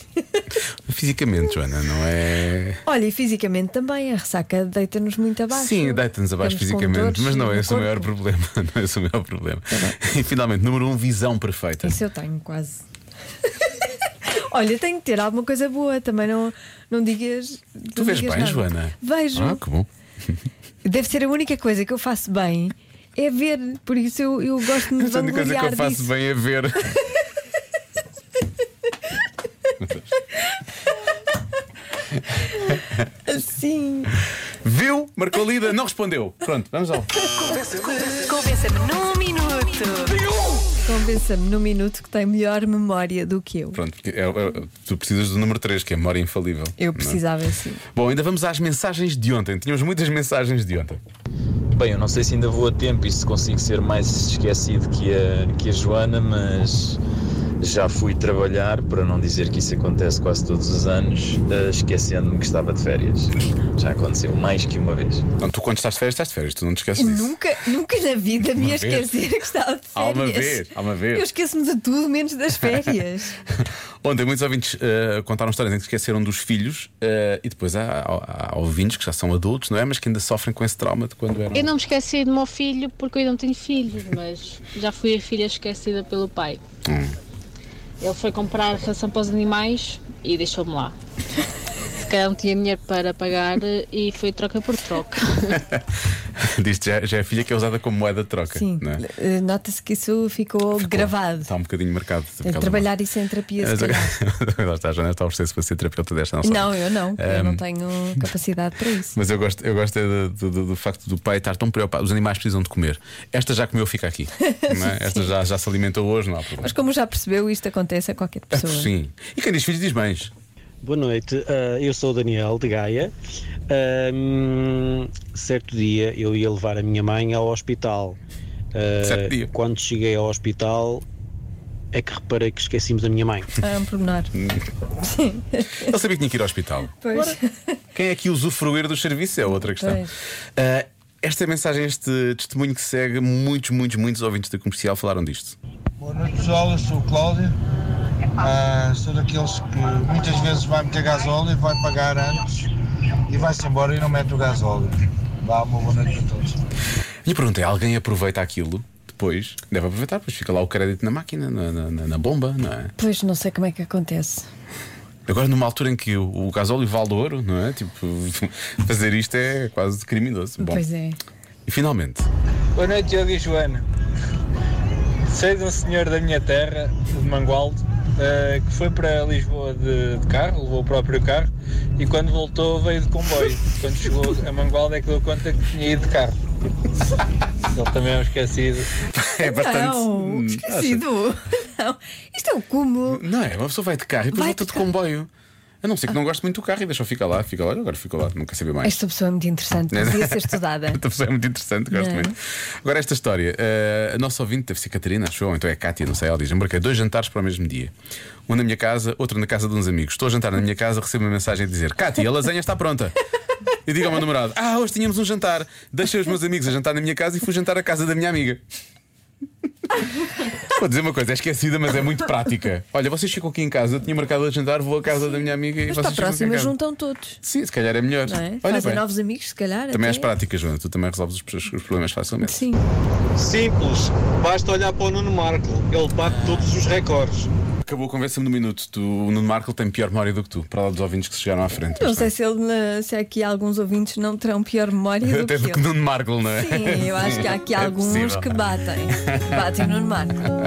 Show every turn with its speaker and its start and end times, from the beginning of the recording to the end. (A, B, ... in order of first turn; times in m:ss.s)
0:00.9-0:02.8 A
0:02.9-0:08.1 B
0:05.5-0:11.9 A
0:09.7-0:10.0 B
0:11.8-0:12.8 B
0:14.3-0:19.6 B
0:18.0-0:19.9 A
0:20.8-0:26.1 B
0:25.0-0:26.8 A
0:33.3-0:34.1 B
0:34.6-0:37.1 A
0:38.3-0:40.1 B
0:40.8-0:43.8 B
0:43.8-0:47.2 A
0:46.8-0:47.8 B
0:48.0-0:51.0 A
0:51.7-0:57.0 C
0:57.6-1:05.2 C
1:05.4-1:07.3 A
1:07.0-1:13.4 B
1:08.6-1:09.1 A
1:10.0-1:11.3 A
1:14.0-1:21.7 A
1:21.5-1:26.6 D
1:26.9-1:27.1 A
1:28.0-1:31.0 D
1:32.0-1:35.6 D
1:36.4-1:39.0 A
1:38.5-1:41.5 B
1:40.8-1:42.9 A
1:42.4-1:44.2 B
1:43.6-1:47.6 A
1:46.4-1:49.2 B
1:49.2-1:56.7 A
1:54.5-1:55.3 B
1:56.6-1:58.9 B
1:58.5-2:00.3 A
2:00.8-2:03.1 E
2:03.7-2:08.2 E
2:08.7-2:11.0 E
2:09.0-2:09.5 A
2:11.9-2:13.5 E
2:13.6-2:14.3 B
2:15.0-2:15.8 B
2:15.9-2:17.0 A
2:17.0-2:17.4 B
2:18.0-2:20.0 A
2:19.6-2:20.1 B
2:20.6-2:25.6 A
2:26.0-2:27.5 F
2:28.4-2:32.7 F
2:33.3-2:36.6 F
2:37.3-2:42.9 A
2:43.0-2:44.5 B
2:45.3-2:50.8 A
2:50.6-2:51.2 B
2:51.7-2:52.3 A
2:52.8-2:53.8 G
2:55.3-3:06.3 G
3:07.7-3:08.9 G
3:09.2-3:11.0 A
3:09.4-3:13.2 B
3:13.2-3:15.3 A
3:14.3-3:14.9 B
3:15.8-3:18.9 A
3:18.8-3:21.0 B
3:19.9-3:27.9 A
3:21.9-3:22.3 B
3:28.5-3:33.1 A
3:33.9-3:38.6 A
3:40.7-3:46.7 A
3:45.9-3:47.4 B
3:47.4-3:49.0 A
3:48.2-3:50.3 B
3:49.9-3:52.6 A
3:52.4-3:52.8 B
3:53.4-3:57.5 G
3:57.8-4:02.3 A
4:01.9-4:05.8 B
4:05.3-4:08.5 A
4:06.5-4:10.4 B